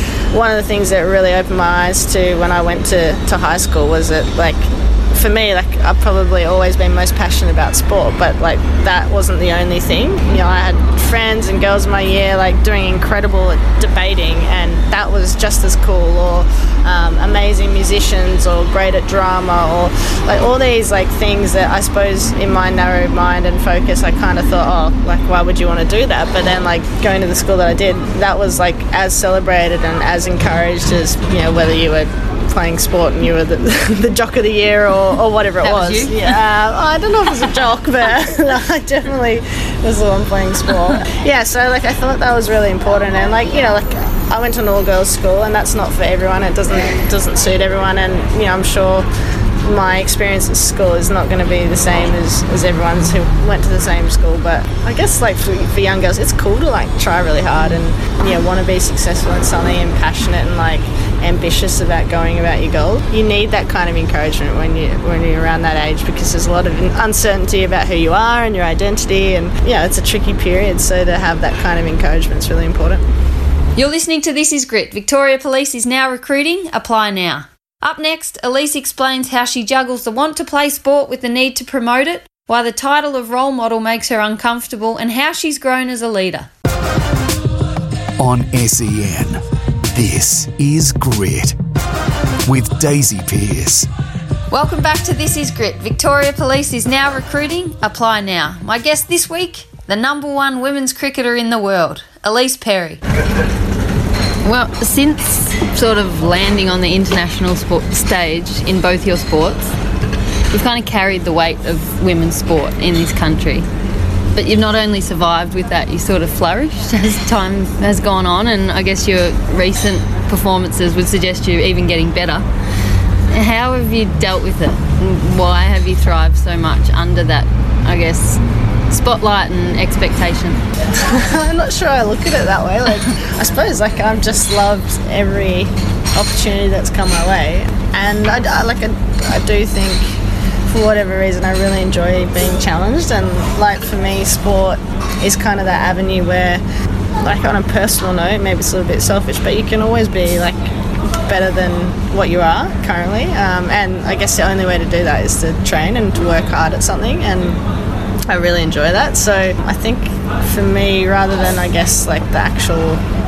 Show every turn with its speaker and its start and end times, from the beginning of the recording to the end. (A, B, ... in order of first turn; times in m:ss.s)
0:00.3-0:49.1 A
0:35.6-0:36.4 B
0:49.6-1:13.0 A
1:13.8-1:26.5 B
1:28.2-1:31.6 C
1:32.5-1:33.9 C
1:34.5-1:43.0 B
1:44.4-1:49.8 B
1:50.5-1:53.7 B
1:54.4-2:02.5 B
2:03.3-2:10.6 B
2:10.9-2:26.6 A
2:27.2-2:37.6 A
2:38.3-2:43.1 A